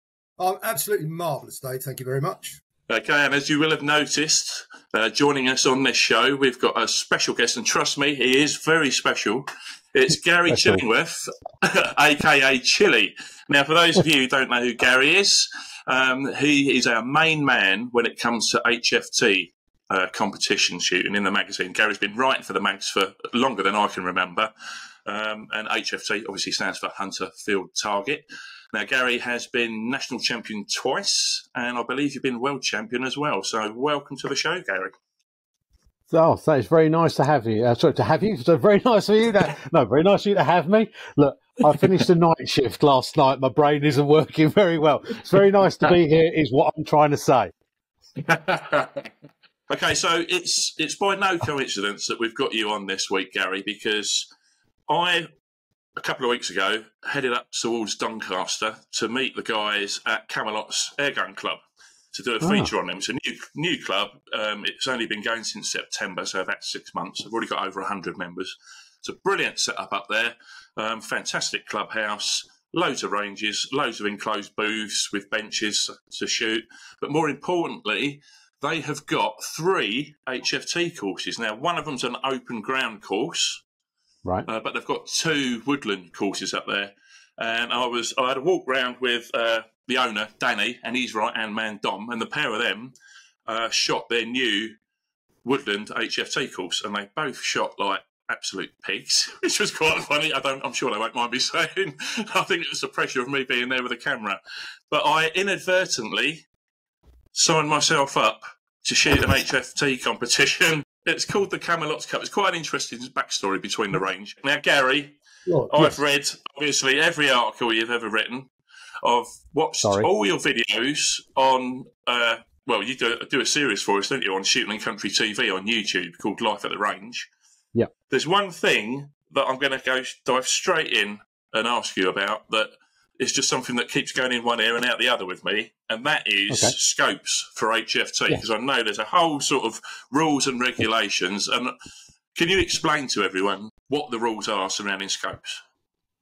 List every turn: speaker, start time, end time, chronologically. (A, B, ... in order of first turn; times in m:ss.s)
0:00.4-0:02.6 A
0:02.9-0:24.5 B
0:10.5-0:10.8 C
0:25.0-0:34.9 B
0:36.1-0:47.5 C
0:48.2-0:49.1 B
0:49.7-0:54.3 B
0:54.9-0:55.3 B
0:56.0-1:01.6 B
1:02.1-1:23.6 B
1:02.4-1:02.7 C
1:24.4-1:32.9 B
1:33.4-1:34.8 B
1:35.4-1:44.4 B
1:44.9-1:46.4 B
1:47.3-1:55.2 B
1:55.5-1:56.0 A
1:55.7-1:58.5 B
1:59.0-2:07.3 B
1:59.8-2:00.1 C
2:08.1-2:21.7 B
2:16.5-2:16.7 C
2:22.3-2:25.6 B